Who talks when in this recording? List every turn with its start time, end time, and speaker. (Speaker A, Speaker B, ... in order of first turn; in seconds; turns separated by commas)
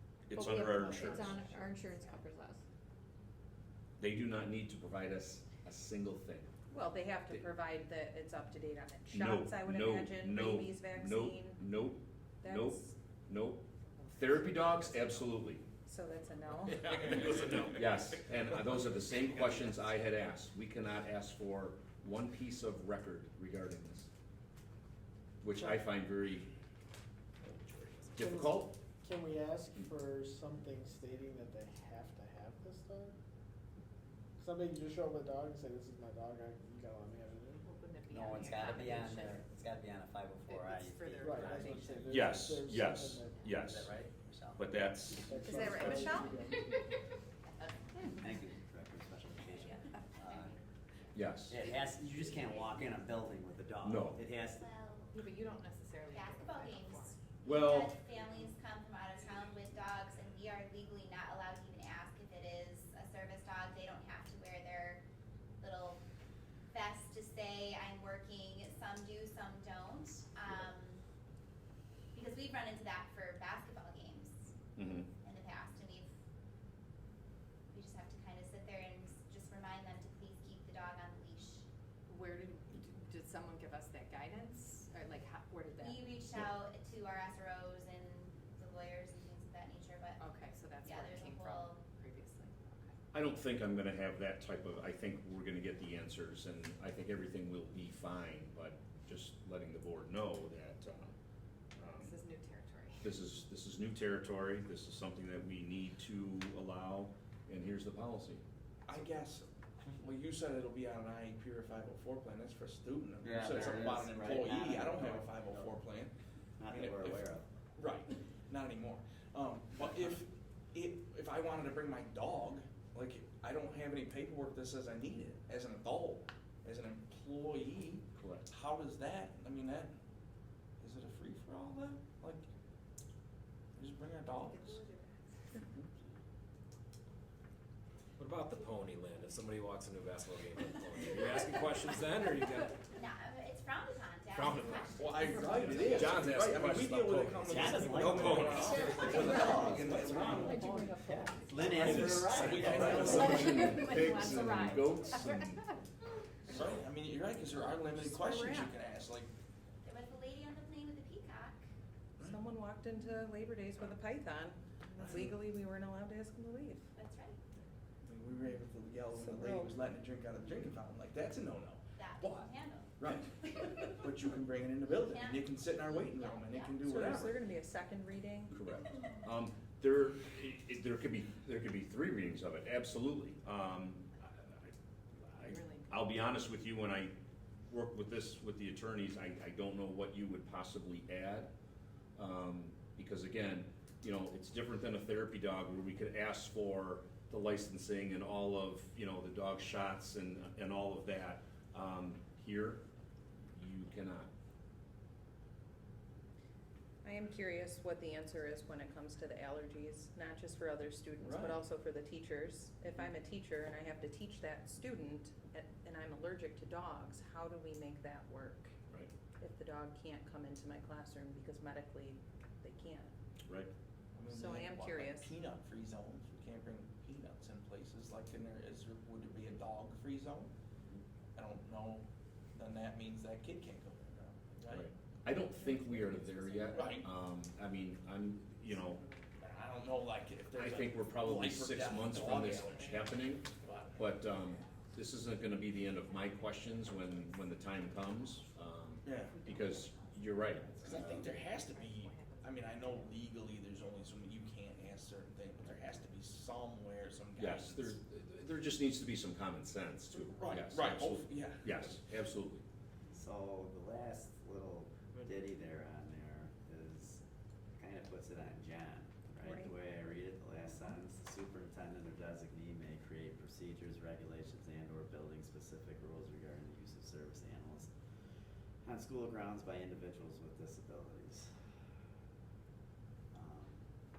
Speaker A: 0.3-1.3, Speaker B: 0.3-2.6, Speaker C: 0.6-1.8, Speaker A: 4.0-6.5, Speaker D: 6.7-11.6, Speaker A: 9.1-13.7, Speaker D: 12.4-12.9, Speaker A: 14.2-15.6, Speaker D: 14.4-15.2, Speaker D: 15.8-16.9, Speaker A: 16.9-24.1, Speaker A: 25.4-26.5, Speaker A: 28.1-28.7, Speaker C: 28.2-33.1, Speaker C: 34.4-37.6, Speaker E: 37.7-39.4, Speaker F: 38.1-42.3, Speaker E: 40.5-41.7, Speaker C: 41.2-43.5, Speaker A: 42.1-43.9, Speaker F: 43.6-44.6, Speaker A: 44.6-46.1, Speaker C: 45.1-46.7, Speaker D: 45.4-46.4, Speaker E: 45.5-46.0, Speaker E: 47.5-48.0, Speaker F: 48.2-50.5, Speaker G: 49.6-53.4, Speaker A: 51.1-51.6, Speaker F: 51.5-54.7, Speaker A: 53.8-54.2, Speaker G: 54.4-55.1, Speaker E: 55.1-57.2, Speaker G: 56.1-65.0, Speaker A: 57.4-58.0, Speaker G: 65.6-66.0, Speaker G: 66.7-71.0, Speaker G: 72.1-74.5, Speaker A: 74.8-75.1, Speaker G: 75.2-76.1, Speaker G: 77.7-81.7, Speaker E: 82.1-86.1, Speaker G: 85.8-90.2, Speaker E: 90.2-92.9, Speaker G: 90.8-91.8, Speaker A: 93.1-101.1, Speaker A: 101.7-102.2, Speaker E: 102.0-103.1, Speaker A: 103.0-108.4, Speaker H: 108.8-116.1, Speaker F: 113.2-115.7, Speaker F: 116.6-117.5, Speaker H: 116.7-129.9, Speaker A: 128.2-128.4, Speaker H: 130.8-132.4, Speaker H: 133.8-134.8, Speaker E: 134.4-135.3, Speaker I: 138.2-142.8, Speaker G: 142.9-146.2, Speaker I: 144.4-144.9, Speaker H: 145.0-150.8, Speaker A: 145.2-148.7, Speaker F: 147.4-150.6, Speaker E: 148.5-149.6, Speaker D: 149.0-151.6, Speaker A: 149.5-150.0, Speaker E: 150.3-151.6, Speaker F: 151.4-153.3, Speaker I: 151.8-152.5, Speaker H: 152.4-154.2, Speaker E: 152.7-155.3, Speaker A: 152.7-155.6, Speaker D: 154.0-154.8, Speaker H: 156.5-159.3, Speaker D: 157.9-158.7, Speaker G: 159.8-161.6, Speaker D: 162.2-166.9, Speaker H: 165.0-165.4, Speaker G: 166.9-167.4, Speaker H: 168.0-177.4, Speaker D: 169.1-169.7, Speaker G: 172.0-172.9, Speaker G: 175.0-176.8, Speaker D: 176.8-178.6, Speaker A: 178.5-187.1, Speaker E: 185.4-186.1, Speaker A: 187.7-191.5, Speaker A: 192.2-202.8, Speaker A: 203.5-204.3, Speaker D: 207.0-218.7, Speaker H: 211.2-211.6, Speaker D: 219.4-223.1, Speaker A: 223.5-223.7, Speaker H: 224.1-230.5, Speaker D: 224.3-225.3, Speaker H: 231.3-234.9, Speaker A: 234.7-239.0, Speaker E: 235.7-236.9, Speaker H: 236.7-237.1, Speaker H: 239.3-244.1, Speaker A: 240.5-251.4, Speaker E: 246.7-248.1, Speaker H: 249.0-249.3, Speaker E: 249.3-253.1, Speaker D: 250.4-251.0, Speaker H: 250.8-258.0, Speaker A: 257.4-262.6, Speaker H: 260.0-262.1, Speaker F: 263.1-267.2, Speaker F: 267.7-277.9, Speaker D: 269.4-269.7, Speaker F: 278.8-281.5, Speaker F: 283.3-283.8